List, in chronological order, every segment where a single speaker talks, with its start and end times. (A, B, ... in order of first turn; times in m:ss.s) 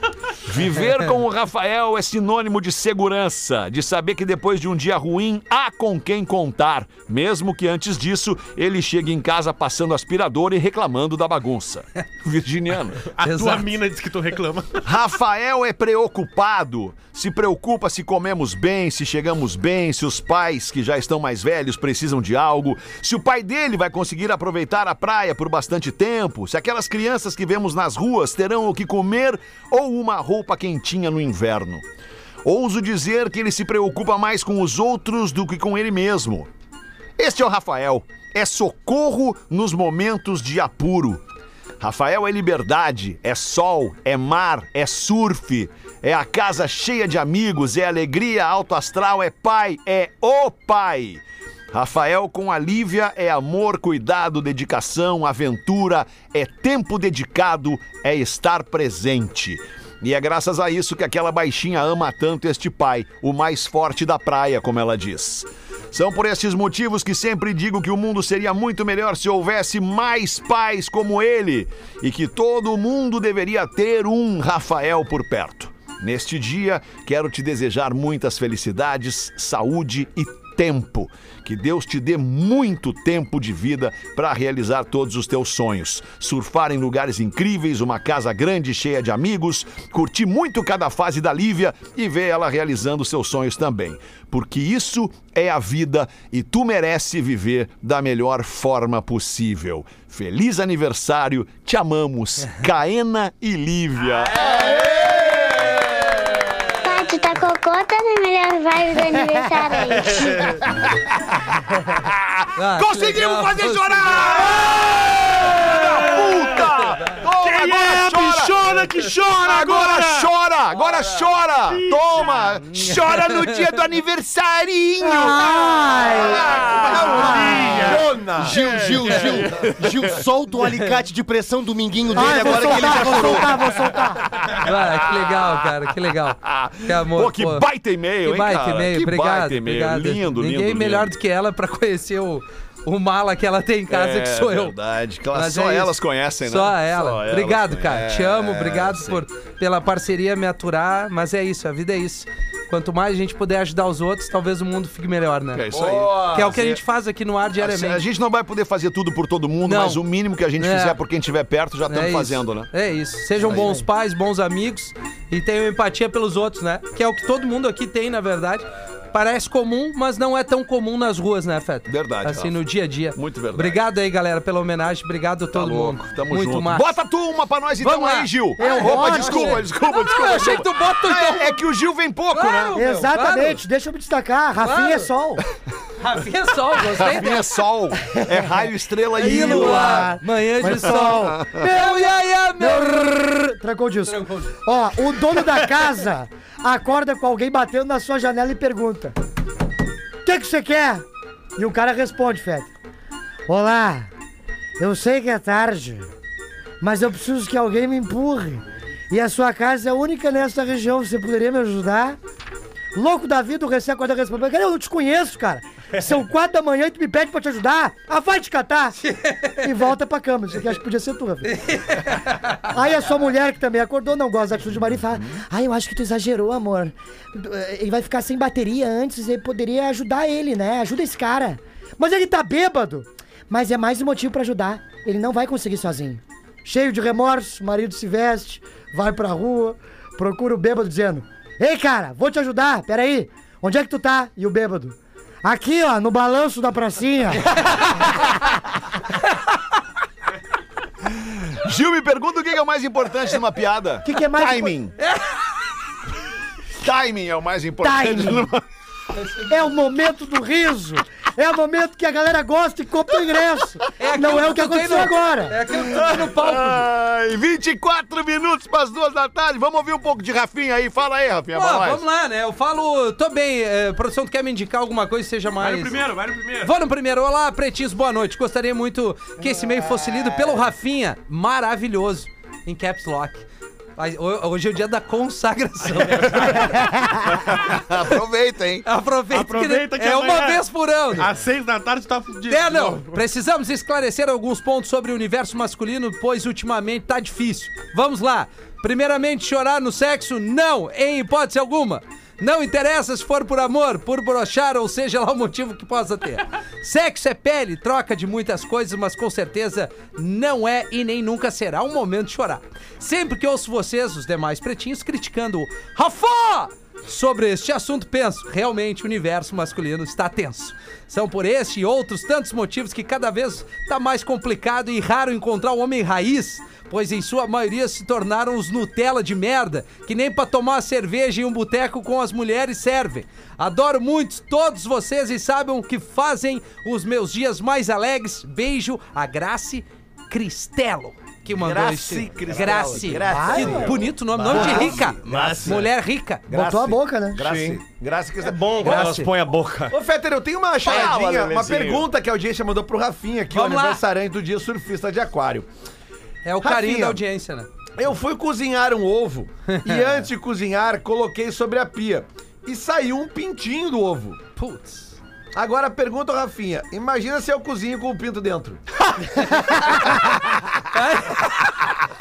0:00.4-0:13.1 A
0:13.2-0:14.8 B
0:13.2-0:13.7 C
0:14.8-0:31.8 A
0:32.4-0:36.5 A
0:37.2-0:41.2 A
0:41.8-1:45.3 A
1:44.4-1:45.9 D
1:46.8-1:50.6 E
1:50.7-2:07.6 A
1:52.6-1:54.4 C
1:55.8-1:56.4 B
1:57.2-2:00.3 B
2:01.7-2:02.4 B
2:02.7-2:03.6 C
2:05.0-2:07.8 F
2:06.3-2:08.6 D
2:07.2-2:08.1 B
2:08.5-2:10.2 A
2:09.0-2:09.2 G
2:12.1-2:14.3 F
2:14.3-2:21.1 A
2:14.6-2:17.6 C
2:18.2-2:24.8 C
2:23.9-2:29.2 A
2:25.3-2:38.0 C
2:35.5-2:36.8 A
2:35.7-2:36.4 D
2:37.6-2:42.7 A
2:39.6-2:40.0 C
2:40.6-2:41.0 C
2:41.9-2:56.9 C
2:43.4-2:43.8 A
2:51.9-2:52.6 A
2:53.1-2:53.8 A
2:55.5-3:02.8 A
2:57.8-3:01.6 C
2:58.6-2:59.6 F
3:02.3-3:03.6 C
3:02.7-3:05.4 F
3:04.6-3:05.1 C
3:06.0-3:07.4 C
3:06.8-3:10.2 A
3:08.1-3:08.4 F
3:09.2-3:19.2 F
3:09.2-3:13.5 C
3:10.7-3:11.6 A
3:14.0-3:14.5 C
3:20.2-3:21.0 F
3:21.6-3:22.7 F
3:23.5-3:24.1 F
3:24.8-3:26.1 F
3:26.8-3:32.2 F
3:33.0-3:39.0 F
3:39.0-3:39.9 C
3:39.6-3:41.5 F
3:41.4-3:42.7 C
3:42.7-4:07.7 F
4:11.1-4:14.9 A
4:14.0-4:14.7 F
4:15.0-4:15.3 C
4:16.8-4:18.6 A
4:17.8-4:18.5 F
4:19.5-4:25.6 F
4:24.0-4:26.9 C
4:25.7-4:32.0 A
4:31.5-4:36.0 C
4:35.6-4:36.7 B
4:36.6-4:43.5 C
4:44.0-4:46.9 C
4:47.3-4:48.9 A
4:48.8-4:51.3 C
4:49.3-4:53.2 B
4:52.5-5:46.4 C
5:41.5-5:45.9 D
5:43.2-5:44.1 F
5:44.5-5:45.8 G
5:46.5-5:49.2 D
5:46.5-5:47.4 F
5:47.4-5:47.8 G
5:48.4-5:50.0 G
5:48.8-5:49.3 C
5:49.9-5:55.7 D
5:50.8-5:52.1 A
5:53.5-5:54.0 C
5:56.4-5:57.7 C
5:56.6-5:57.2 D
5:58.0-6:04.4 D
5:59.7-6:00.0 C
6:04.6-6:05.2 C
6:05.5-6:08.8 D
6:09.4-6:10.4 C
6:10.9-6:11.9 C